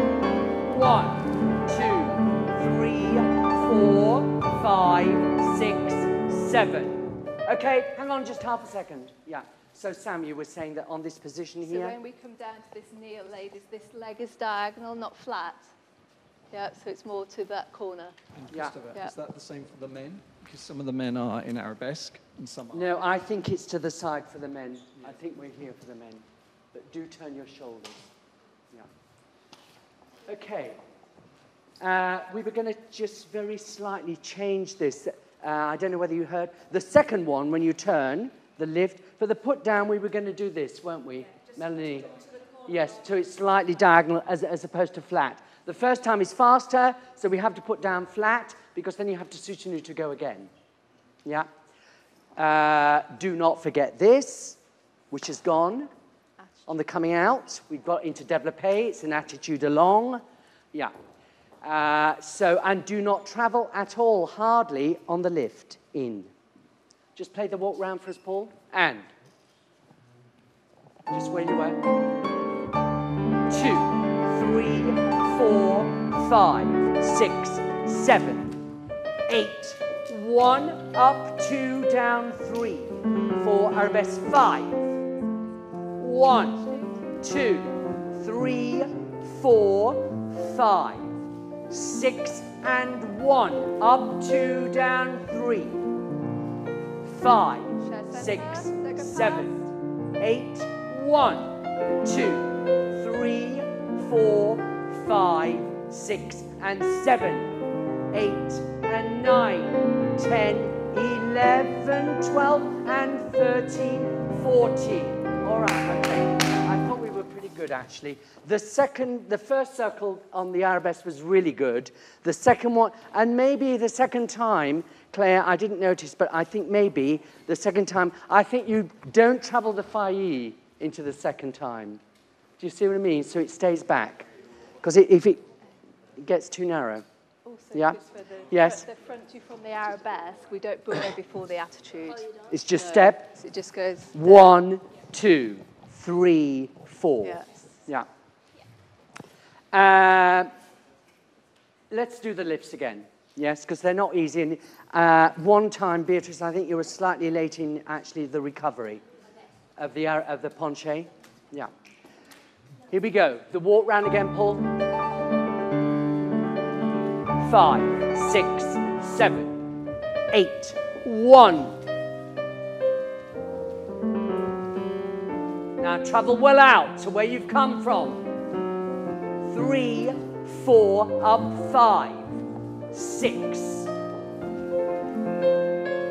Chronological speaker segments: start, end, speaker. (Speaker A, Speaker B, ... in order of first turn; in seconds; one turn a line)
Speaker A: 0.6-11.9
Speaker B: 11.6-15.6
Speaker B: 16.5-18.2
Speaker C: 18.4-22.9
Speaker A: 18.5-18.8
Speaker A: 22.7-28.0
Speaker A: 30.2-30.8
Speaker A: 31.8-50.5
Speaker A: 52.4-54.6
Speaker A: 55.1-55.9
Speaker B: 56.4-56.7
Speaker A: 56.7-60.9
Speaker A: 61.6-66.3
Speaker A: 67.2-69.1
Speaker A: 71.1-71.8
Speaker A: 73.5-78.6
Speaker A: 79.3-84.9
Speaker A: 86.0-95.8
Speaker A: 97.0-107.6
Speaker B: 97.8-99.6
Speaker A: 108.1-132.0
Speaker A: 132.6-134.3
Speaker A: 134.8-135.4
Speaker A: 136.2-137.0
Speaker B: 137.4-144.6
Speaker A: 137.7-138.0
Speaker A: 138.5-138.9
Speaker A: 142.4-143.3
Speaker A: 144.1-148.1
Speaker A: 149.7-150.5
Speaker A: 151.9-159.0
Speaker A: 159.8-161.7
Speaker A: 162.9-164.6
Speaker A: 167.4-169.6
Speaker A: 170.3-171.8
Speaker A: 175.8-178.2
Speaker A: 179.4-182.4
Speaker A: 182.9-183.9